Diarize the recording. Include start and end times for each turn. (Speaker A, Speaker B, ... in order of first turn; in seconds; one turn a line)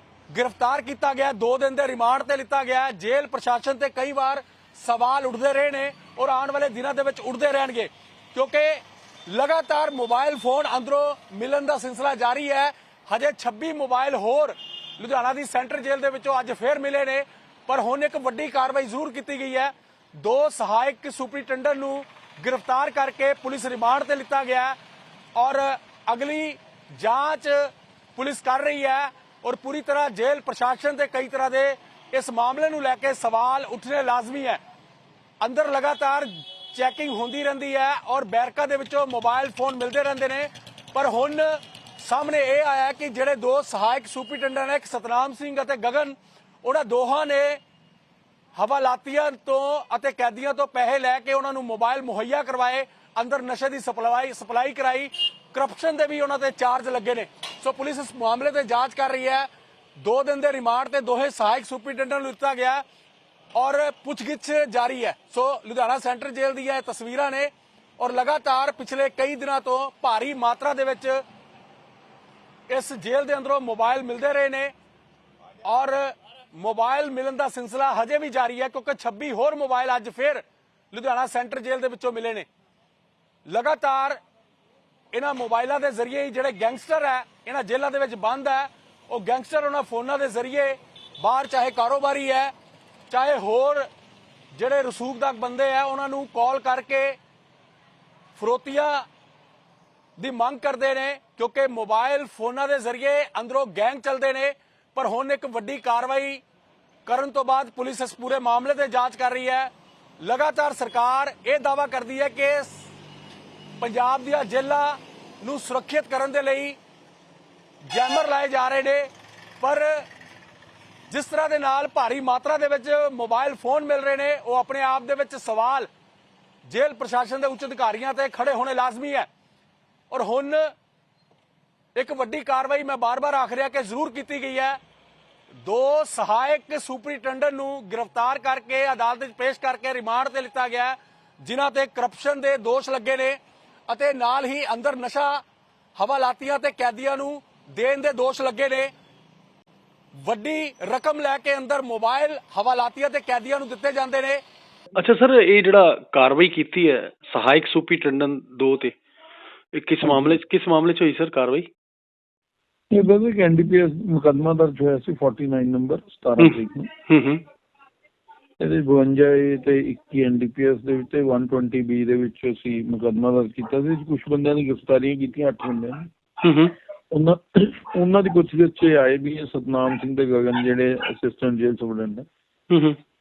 Speaker A: 0.3-24.8
Speaker A: 25.4-34.6
Speaker A: 35.4-47.6
Speaker A: 48.5-59.5
Speaker A: 60.0-62.8
Speaker A: 63.5-71.2
Speaker A: 72.7-74.7
Speaker A: 75.6-80.4
Speaker A: 80.9-82.5
Speaker A: 83.5-84.2
Speaker A: 85.1-92.5
Speaker A: 93.1-93.9
Speaker A: 94.5-97.2
Speaker A: 98.3-99.0
Speaker A: 100.2-106.4
Speaker A: 107.0-109.7
Speaker A: 110.2-112.8
Speaker A: 113.8-116.8
Speaker A: 117.9-119.1
Speaker A: 119.6-120.0
Speaker A: 121.1-125.9
Speaker A: 126.7-129.3
Speaker A: 130.1-130.6
Speaker A: 131.9-134.8
Speaker A: 135.6-143.4
Speaker A: 143.9-145.4
Speaker A: 145.9-148.9
Speaker A: 150.2-154.4
Speaker B: 155.0-158.9
Speaker B: 159.7-161.7
Speaker C: 160.0-160.4
Speaker C: 162.9-166.9
Speaker B: 166.4-167.4
Speaker C: 168.6-176.1
Speaker B: 176.4-176.7
Speaker C: 177.1-182.2
Speaker B: 182.7-183.0